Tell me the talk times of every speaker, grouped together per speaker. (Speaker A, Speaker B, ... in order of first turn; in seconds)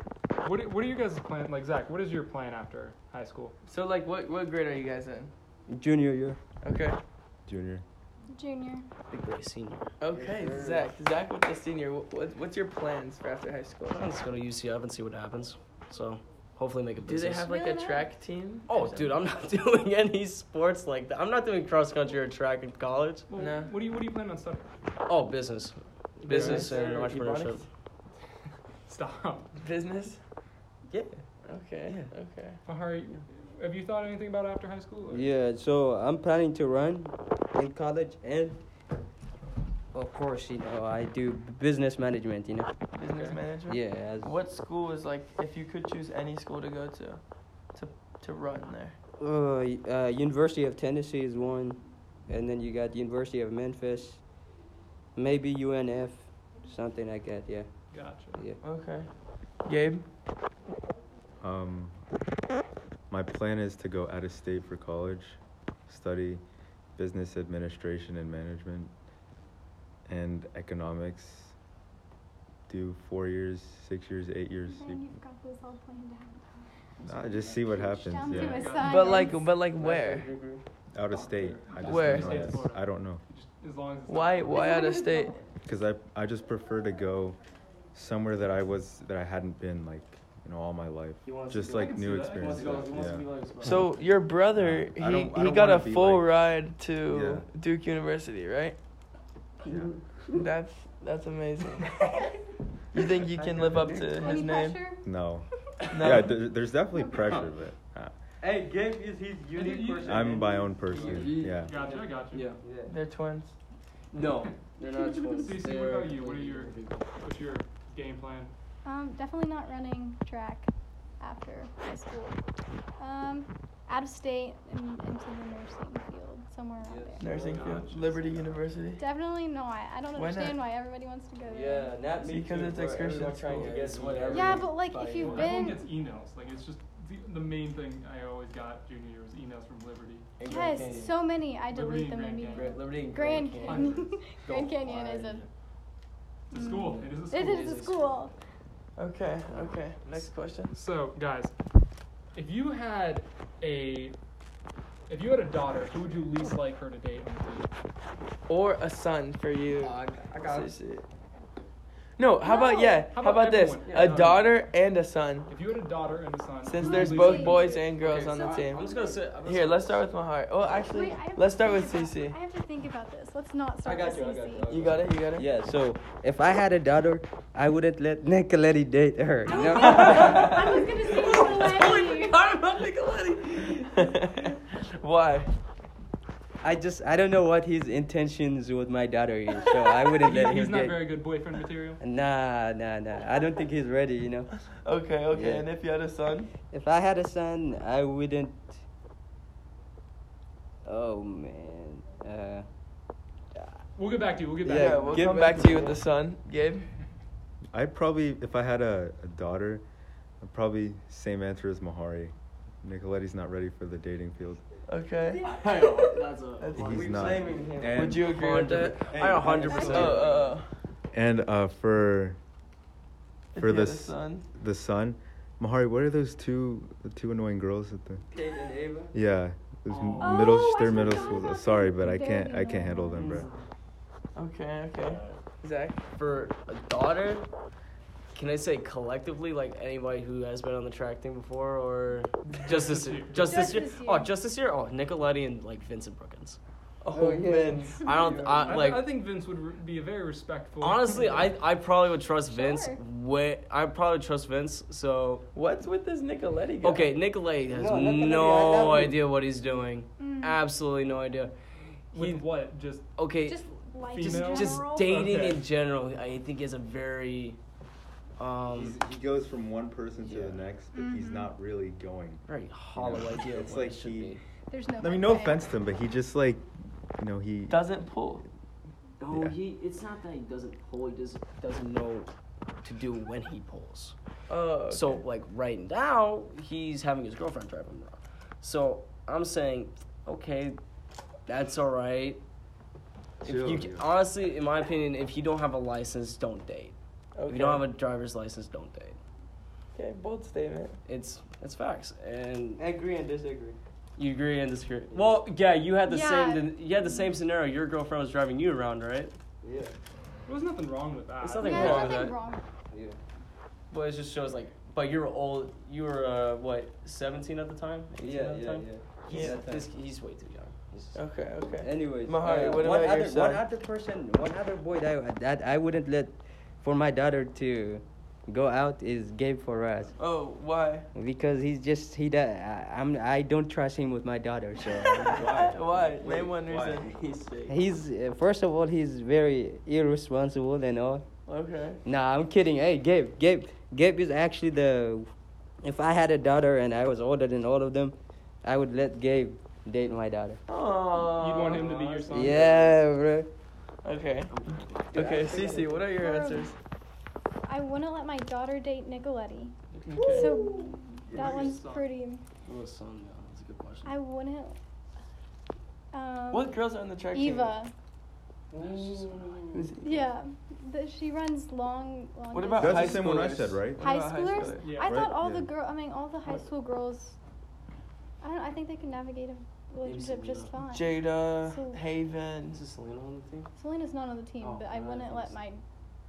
Speaker A: 0.4-3.5, 23.3-24.7, 26.3-26.9, 28.9-29.5, 32.6-35.2, 43.1-43.4, 57.9-58.4, 78.3-79.4, 81.6-84.7, 91.7-93.1, 109.5-110.5, 111.4-112.5, 115.0-118.5, 127.2-128.4, 135.2-140.3, 141.6-142.8, 143.6-144.1, 146.5-147.8, 150.7-151.5, 152.3-154.2, 155.1-157.7, 163.1-164.4, 165.5-168.5, 190.1-192.0, 203.9-205.8, 229.9-231.1, 242.6-243.8, 248.6-251.6, 262.1-263.1, 264.1-265.6, 310.4-312.2, 351.2-352.9, 361.3-362.1, 374.8-375.2
Speaker B: 3.6-5.3, 6.6-7.0, 10.0-14.1, 17.1-19.2, 23.3-23.7, 26.3-27.6, 29.6-30.2, 31.4-32.6, 42.9-47.2, 47.7-48.9, 58.6-59.1, 59.6-60.0, 78.8-80.3, 81.8-82.6, 84.1-85.3, 93.6-98.8, 100.3-102.0, 102.9-104.8, 105.9-106.3, 112.9-113.5, 127.2-129.0, 130.1-130.6, 132.2-133.8, 149.0-150.7, 158.5-161.0, 162.2-165.5, 166.7-168.9, 169.4-172.3, 174.7-175.5, 179.6-185.5, 194.8-196.5, 204.7-206.8, 214.9-217.1, 217.9-219.0, 219.8-220.7, 223.5-224.4, 234.3-236.0, 247.0-248.0, 255.5-257.1, 277.7-278.4, 284.5-285.1, 297.4-297.8, 299.9-301.0, 319.3-319.6, 321.1-323.6, 330.2-331.1, 335.2-337.7, 341.5-342.0, 350.7-352.7, 354.0-354.5, 355.1-356.8, 360.1-360.5, 366.5-367.7, 369.7-370.1, 372.5-374.9, 380.9-382.8
Speaker C: 5.7-6.4, 10.1-10.9, 26.2-27.0, 35.1-38.6, 39.9-42.7, 43.7-44.3, 49.2-54.2, 55.1-58.6, 103.5-104.2, 108.4-111.5, 112.6-112.9, 126.8-127.6, 131.5-134.7, 173.8-180.6, 186.6-191.1, 192.0-194.5, 195.3-195.7, 196.7-198.8, 200.8-202.7, 204.6-206.0, 216.7-218.2, 219.2-220.3, 228.3-229.1, 247.1-249.0, 257.7-259.2, 302.8-303.8, 305.1-305.4, 309.6-309.9, 312.9-313.2, 318.2-319.9, 321.8-330.1, 331.1-335.7, 337.7-341.2, 342.0-345.3, 345.8-350.6, 352.3-353.5, 355.1-356.1, 360.4-360.9
Speaker D: 7.5-7.8, 61.4-61.9, 63.1-66.4, 67.0-68.9, 70.1-71.5, 72.7-75.1, 77.0-78.8, 80.9-83.2, 85.6-87.4, 87.9-93.8, 94.5-96.3, 97.1-97.4, 99.7-100.0, 105.0-108.1, 110.0-111.7, 207.7-209.8, 210.4-214.6, 216.7-220.2, 221.1-222.4, 223.6-228.2, 229.1-233.5, 268.7-274.4, 275.0-277.8, 279.3-279.6, 293.4-294.1, 334.8-337.1, 372.8-374.1, 375.0-375.7
Speaker E: 8.3-8.8, 17.4-18.1, 74.6-76.7, 78.0-79.4, 84.5-85.4, 104.2-105.0, 115.2-115.5, 118.8-120.7, 121.2-122.4, 123.0-127.2, 129.0-131.9, 134.3-135.8, 140.4-145.4, 146.5-148.3, 162.4-163.1, 166.8-167.8, 170.8-174.7, 179.4-182.4, 230.2-233.4, 243.4-244.3, 252.5-253.0, 260.2-260.6, 263.4-265.2, 270.9-271.5, 274.7-275.7, 306.1-306.9, 311.6-312.6, 356.1-356.7, 357.6-362.4, 364.0-364.8, 366.1-366.8, 367.3-367.9, 370.0-373.4, 374.0-377.4, 378.4-382.0, 383.7-385.8
Speaker F: 9.1-9.9, 13.9-17.5, 18.7-23.3, 25.1-27.6, 77.0-78.5, 79.8-82.6, 91.2-93.8, 110.9-112.6, 114.1-117.1, 132.7-135.6, 140.4-141.1, 142.5-145.5, 146.6-148.3, 149.5-149.8, 159.8-160.7, 163.8-164.4, 168.0-170.1, 180.3-180.6, 181.1-183.4, 215.4-220.5, 233.2-233.4, 235.0-235.4, 236.1-237.4, 238.3-246.6, 248.0-249.1, 250.8-255.4, 256.8-261.5, 262.1-262.5, 263.1-263.6, 264.2-267.6, 268.4-269.0, 270.2-270.6, 272.4-274.4, 279.2-282.3, 282.8-284.1, 284.9-290.8, 291.5-292.4, 293.4-296.9, 297.5-299.2, 301.1-302.8, 304.1-309.3, 311.4-312.4, 313.9-321.2, 352.5-352.9, 354.5-355.6, 359.9-360.4, 362.6-364.1, 368.7-369.9, 380.0-380.7, 382.7-383.7, 384.6-385.5